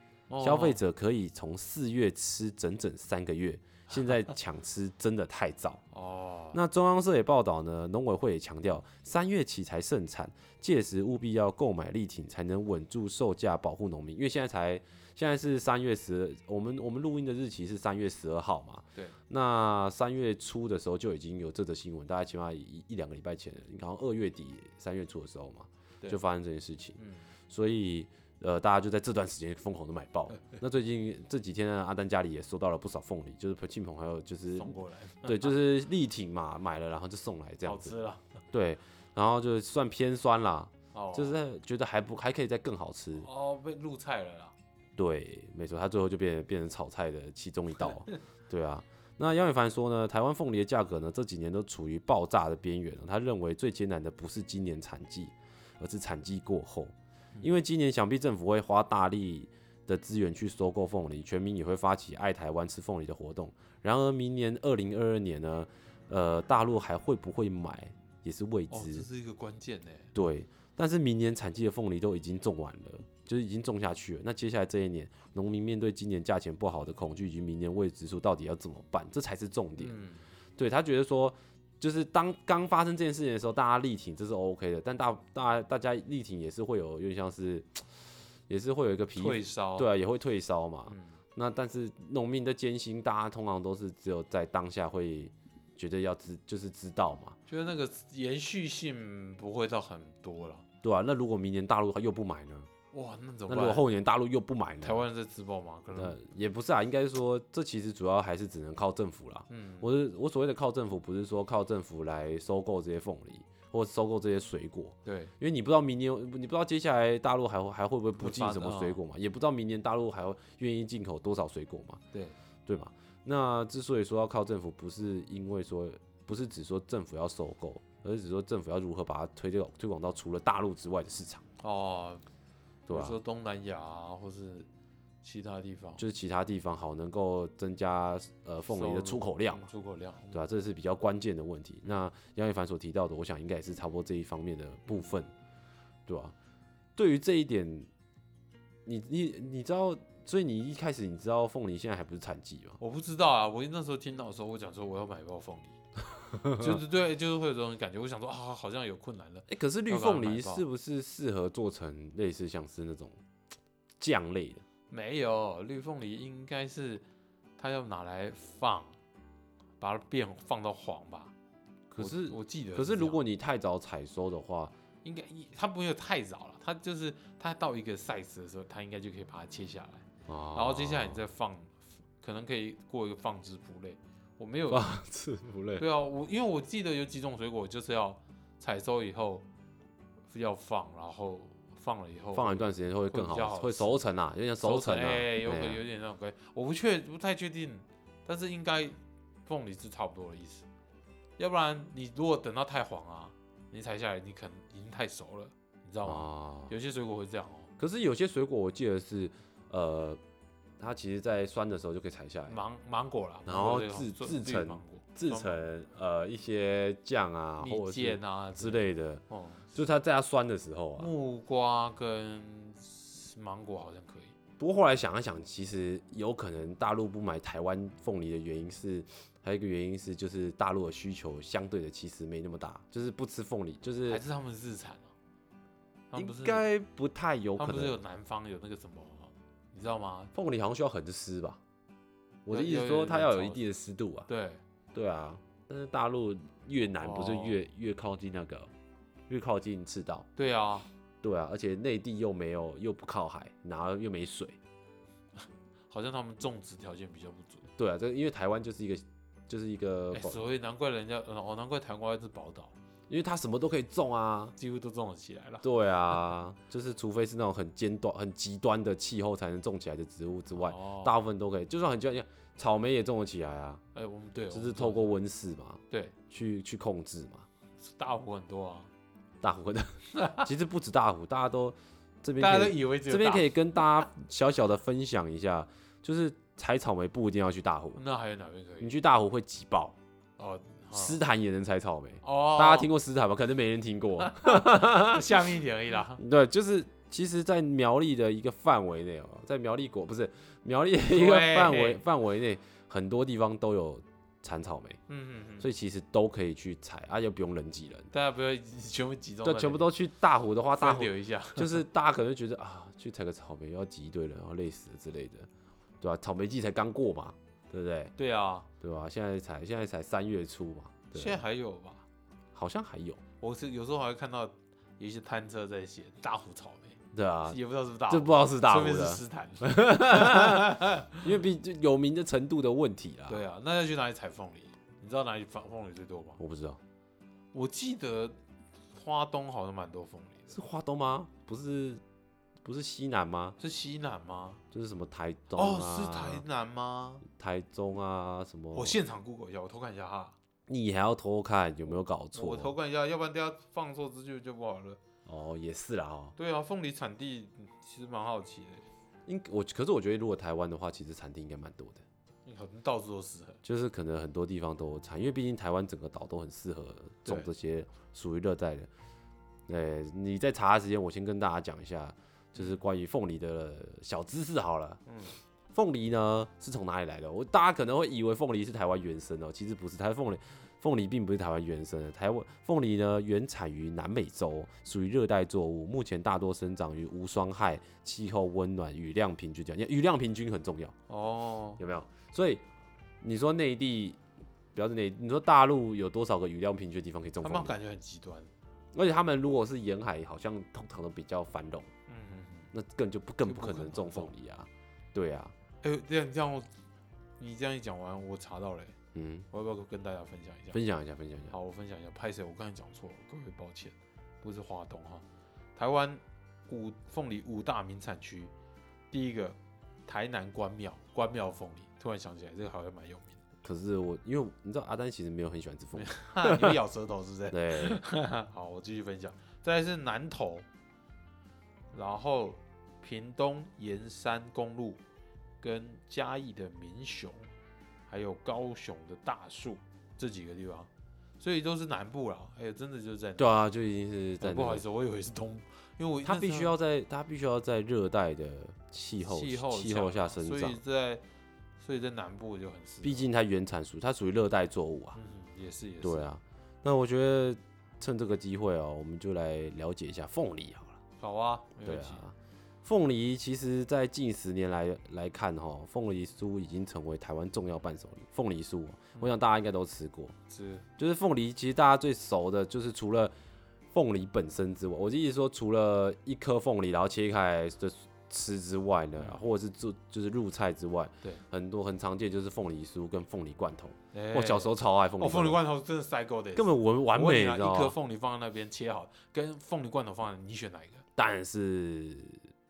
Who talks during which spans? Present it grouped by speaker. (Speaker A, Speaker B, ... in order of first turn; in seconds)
Speaker A: 0.3-0.8, 5.9-6.6, 26.9-27.3, 34.5-35.5, 37.6-38.2, 40.9-41.4, 43.1-44.5, 68.7-70.1, 79.8-80.2, 89.2-89.9, 90.9-91.2, 97.5-100.7, 102.9-103.8, 104.8-106.2, 109.5-109.9, 115.0-115.3, 118.2-119.0, 131.6-132.2, 132.9-134.7, 135.2-136.0, 138.7-140.4, 152.8-155.8, 156.4-160.6, 164.9-167.0, 167.6-168.9, 169.8-171.3, 172.0-173.2, 175.0-184.9, 185.8-189.4, 190.3-194.0, 194.6-200.7, 201.4-207.7, 212.5-215.6, 217.6-219.8, 221.0-224.3, 234.1-235.1, 236.1-236.6, 237.6-240.3, 242.5-243.7, 244.3-244.6, 247.0-247.6, 250.3-250.9, 255.4-257.6, 260.1-262.7, 264.6-266.2, 270.5-271.2, 273.9-275.1, 275.9-276.1, 277.8-278.9, 280.1-280.5, 282.4-283.5, 287.9-288.9, 290.4-291.2, 292.2-292.9, 294.2-296.2, 301.1-302.0, 305.1-305.7, 308.1-309.9, 310.7-311.8, 318.1-318.7, 321.1-322.0, 323.4-331.3, 333.3-336.4, 337.5-338.4, 338.9-340.6, 343.6-344.6, 345.5-347.2, 348.7-350.3, 352.3-355.0, 356.4-358.9, 362.4-363.6, 367.2-367.5, 372.5-372.8, 375.1-375.4, 391.1-391.8, 397.4-398.5, 402.1-402.7, 403.4-404.3, 405.8-406.7, 407.4-408.9, 409.5-410.8, 411.5-415.2, 415.8-418.5, 419.1-423.4, 425.9-430.6, 431.9-435.0, 435.6-437.5, 438.1-440.9, 441.4-443.5, 444.4-446.7, 449.2-451.2, 451.8-453.3, 455.1-456.3, 461.2-462.2, 470.5-470.8, 479.2-479.4, 484.1-491.0
Speaker B: 0.4-5.8, 6.5-27.0, 27.5-37.9, 38.5-43.3, 45.0-69.0, 70.1-79.9, 80.6-87.8, 88.5-97.4, 100.8-102.7, 103.5-105.0, 105.9-122.0, 122.7-131.4, 132.9-133.2, 136.0-139.7, 140.3-145.3, 146.1-146.3, 146.9-147.9, 148.8-152.8, 156.3-156.8, 159.5-163.2, 164.0-164.6, 171.9-174.7, 180.2-181.2, 184.7-185.8, 192.3-195.8, 206.0-206.7, 207.8-210.2, 210.8-212.6, 213.4-219.2, 219.7-221.1, 224.6-234.2, 236.1-238.0, 240.3-241.6, 242.4-244.3, 244.9-248.7, 249.3-250.2, 251.2-254.6, 257.8-260.4, 263.1-264.5, 265.6-273.8, 274.5-277.4, 279.4-288.0, 288.8-289.9, 290.9-295.3, 296.2-305.0, 305.6-308.1, 309.4-315.5, 316.0-318.1, 318.8-321.4, 322.5-323.2, 327.1-327.6, 328.1-333.4, 336.4-336.8, 340.5-342.0, 342.6-343.6, 344.7-346.4, 347.2-349.0, 350.7-352.7, 355.2-356.3, 359.2-362.0, 363.6-368.9, 369.7-375.0, 375.7-390.9, 391.8-392.6, 393.2-394.2, 394.7-397.7, 398.9-401.9, 402.7-405.5, 409.1-409.5, 410.7-411.5, 423.6-426.8, 427.5-428.0, 443.4-444.8, 446.2-450.8, 453.0-455.2, 456.0-461.0, 461.8-470.3, 471.0-473.3, 473.9-485.6, 486.5-487.9, 491.1-492.4